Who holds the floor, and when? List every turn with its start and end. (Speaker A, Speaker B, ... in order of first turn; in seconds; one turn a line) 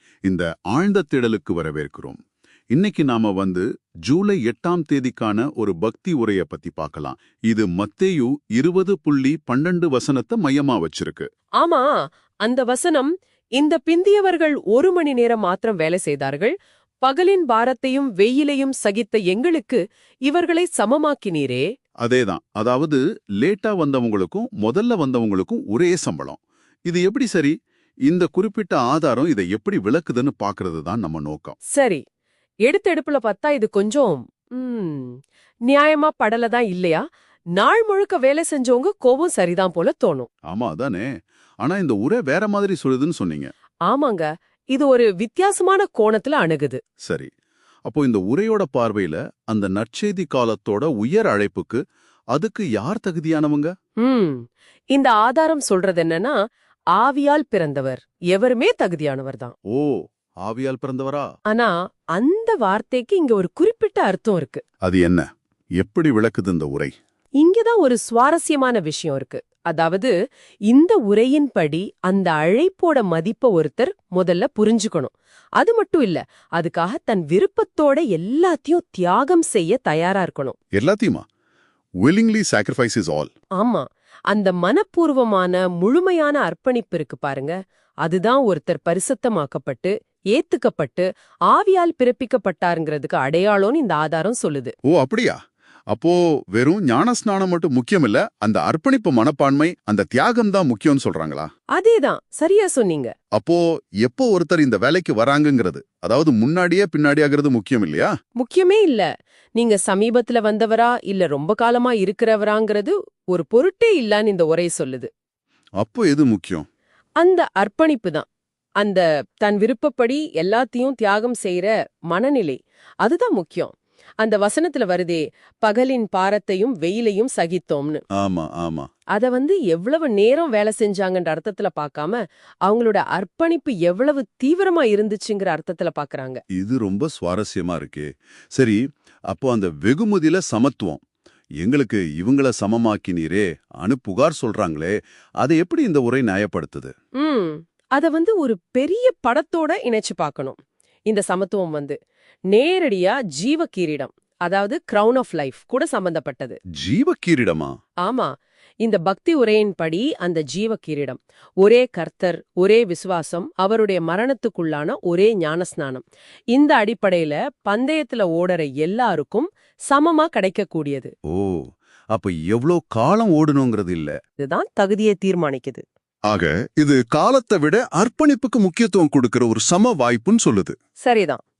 Speaker A: 0.2-2.2
Speaker A: 2.7-11.3
Speaker B: 11.6-11.9
Speaker B: 12.4-21.6
Speaker A: 22.0-27.5
Speaker A: 28.1-31.6
Speaker B: 31.7-32.0
Speaker B: 32.6-35.2
Speaker B: 35.7-37.0
Speaker B: 37.5-40.3
Speaker A: 40.5-41.1
Speaker A: 41.6-43.5
Speaker B: 43.9-46.8
Speaker A: 47.0-47.3
Speaker A: 47.9-51.8
Speaker A: 52.3-53.7
Speaker B: 54.0-56.4
Speaker B: 57.0-59.5
Speaker A: 59.7-61.3
Speaker B: 61.5-64.6
Speaker A: 64.8-65.3
Speaker A: 65.8-66.9
Speaker B: 67.4-70.1
Speaker B: 70.7-80.5
Speaker A: 80.7-81.2
Speaker A: 82.0-83.3
Speaker B: 83.6-94.7
Speaker A: 94.9-95.4
Speaker A: 95.9-101.5
Speaker B: 101.8-103.1
Speaker A: 103.3-108.1
Speaker B: 108.4-115.1
Speaker A: 115.8-116.7
Speaker B: 117.2-118.2
Speaker B: 118.8-128.0
Speaker A: 128.2-128.9
Speaker B: 129.1-136.4
Speaker A: 136.5-141.0
Speaker A: 141.6-146.9
Speaker B: 147.2-150.6
Speaker B: 151.1-151.9
Speaker B: 152.5-156.6
Speaker A: 156.8-157.7
Speaker B: 158.0-171.1
Speaker A: 171.3-174.1
Speaker B: 174.4-175.8
Speaker A: 176.3-180.7
Speaker B: 181.0-181.4